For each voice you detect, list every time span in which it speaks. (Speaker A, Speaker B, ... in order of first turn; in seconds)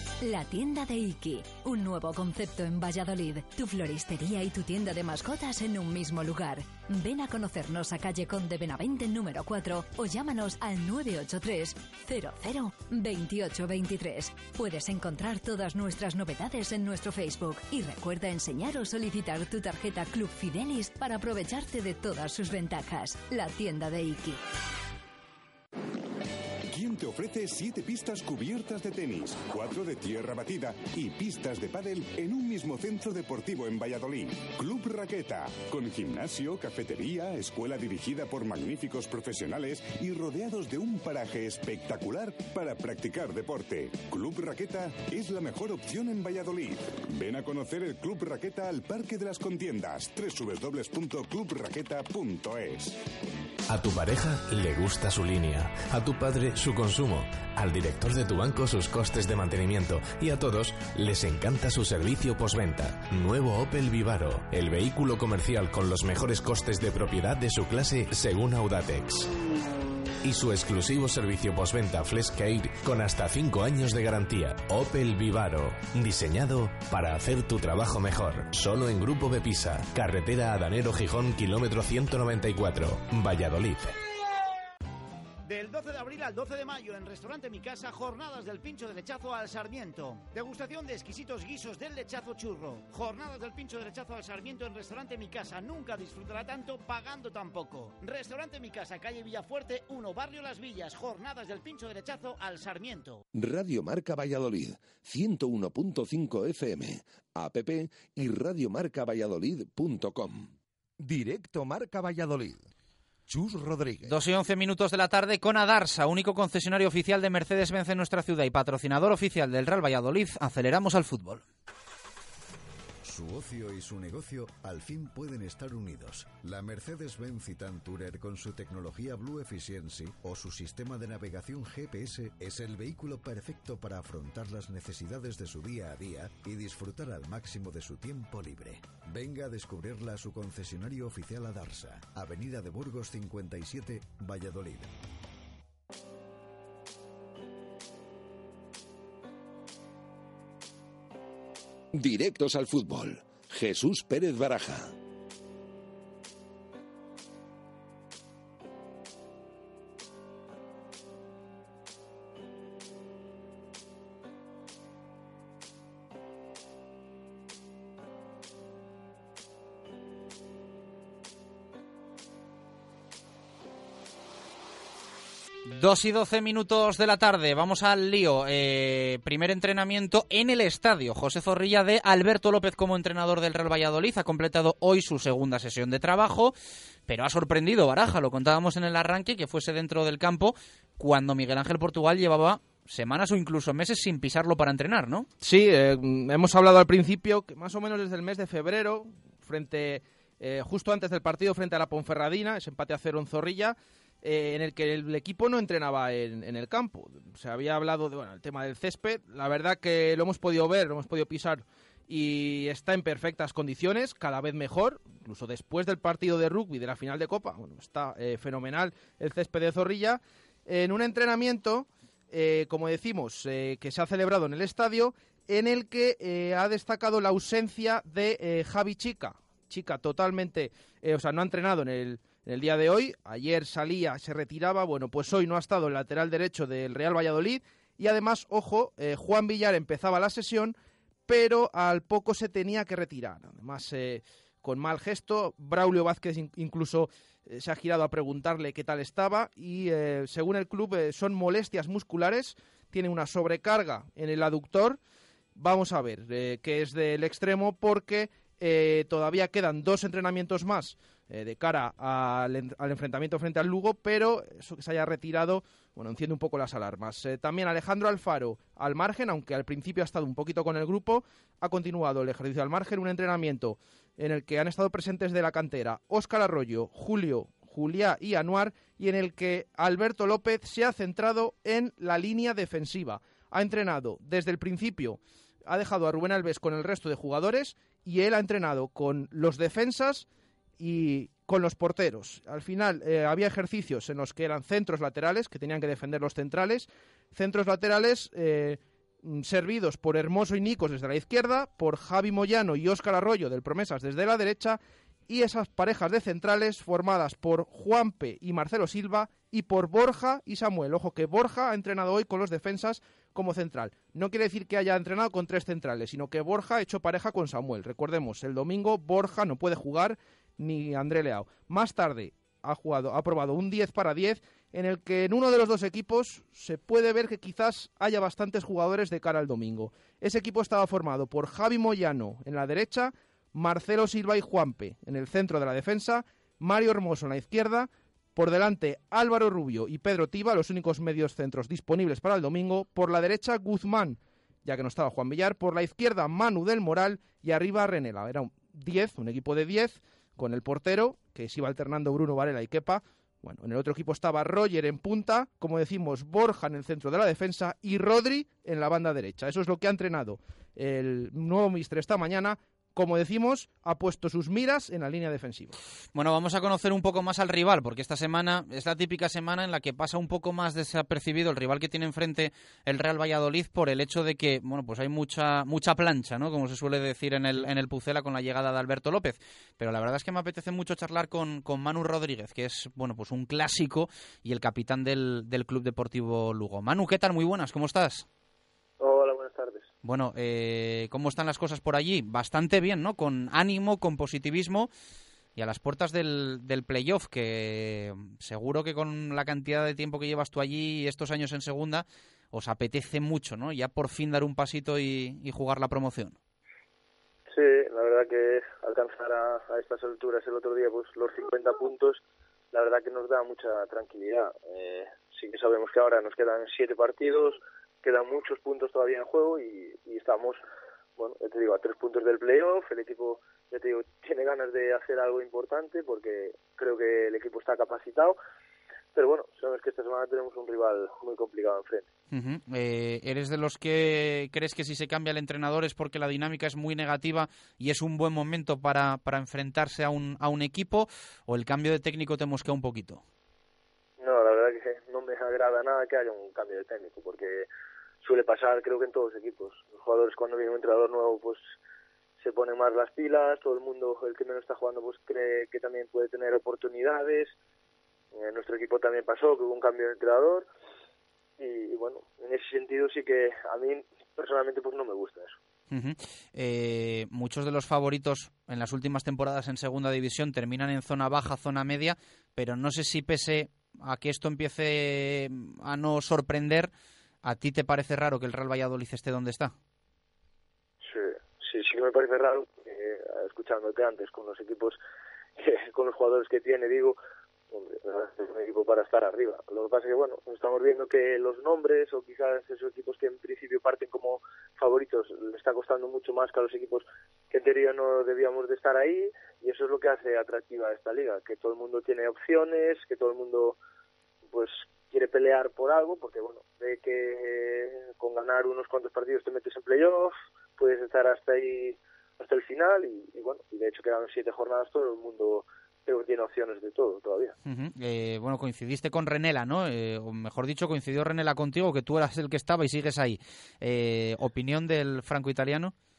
Speaker A: 0.2-24.4
Speaker B: 26.7-53.0
Speaker C: 53.7-69.3, 70.2-84.0
Speaker D: 85.5-103.2
Speaker E: 103.3-112.7, 113.3-114.2, 151.9-154.9
Speaker F: 114.0-121.4, 175.7-186.5, 187.1-195.3, 366.1-388.2, 390.0-394.9, 395.6-406.4, 432.3-443.2, 465.9-476.9, 477.4-479.7, 517.6-525.9
Speaker G: 123.0-144.9
Speaker H: 195.4-240.7, 241.3-255.0, 255.6-290.2, 290.8-365.8
Speaker I: 389.0-389.9, 407.5-412.2, 412.7-420.6, 421.2-428.4, 429.1-432.1, 444.2-447.7, 448.2-451.6, 452.4-457.5, 458.3-460.7, 461.6-465.6, 481.0-485.0, 485.6-487.2, 487.7-503.8, 504.5-517.5